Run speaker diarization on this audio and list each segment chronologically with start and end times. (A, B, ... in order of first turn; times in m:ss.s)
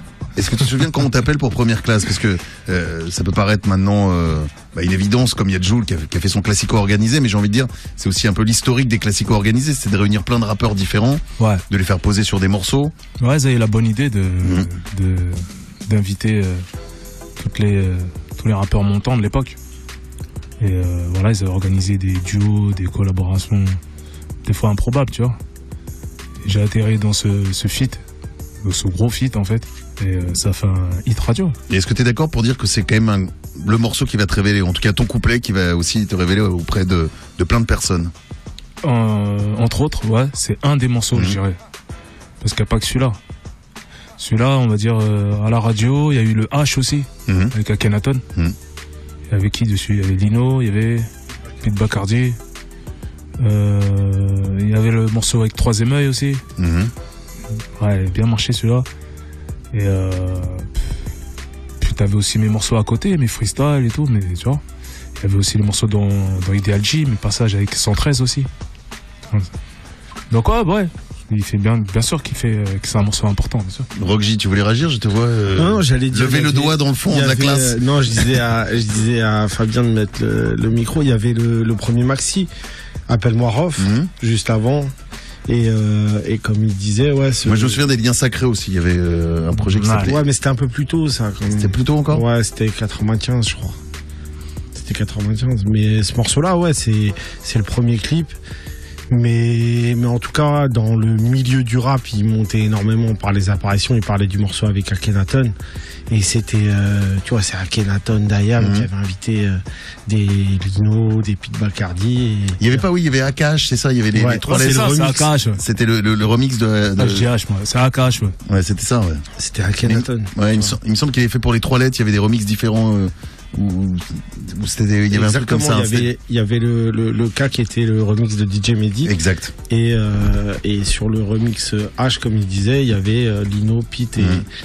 0:00.4-0:12.9 A
0:11.4-0:11.6 B
0:13.2-0:16.6 B
0:14.4-0:14.7 A
0:17.4-0:19.6 B
0:20.6-0:23.8 B
0:24.4-0:25.4 B
0:26.4-0:28.0 B
0:28.6-0:31.6 B
0:31.7-0:38.1 A
0:38.8-0:41.6 B
0:42.4-0:43.2 B
0:44.2-0:48.2 B
0:47.3-0:47.5 A
0:49.3-0:51.1 B
0:51.6-0:52.4 B
0:53.4-0:56.4 B
0:56.6-0:56.9 A
0:57.8-0:58.9 B
0:59.7-1:00.7 B
1:01.8-1:04.6 B
1:05.2-1:08.5 B
1:10.3-1:13.9 B
1:14.0-1:17.8 A
1:15.6-1:22.5 C
1:23.1-1:24.9 C
1:23.8-1:24.1 A
1:25.5-1:27.8 C
1:27.4-1:30.2 A
1:29.6-1:30.1 B
1:30.0-1:33.8 C
1:31.6-1:32.2 A
1:34.8-1:38.4 C
1:39.1-1:45.5 C
1:46.1-1:52.8 C
1:48.6-1:48.9 A
1:52.6-1:57.3 A
1:54.1-1:55.3 C
1:54.4-1:55.6 B
1:57.0-1:58.4 B
1:58.5-1:59.2 A
1:59.4-2:00.3 C
1:59.8-2:06.1 A
2:05.1-2:09.2 C
2:09.0-2:09.5 A
2:09.7-2:14.5 C
2:14.2-2:14.5 A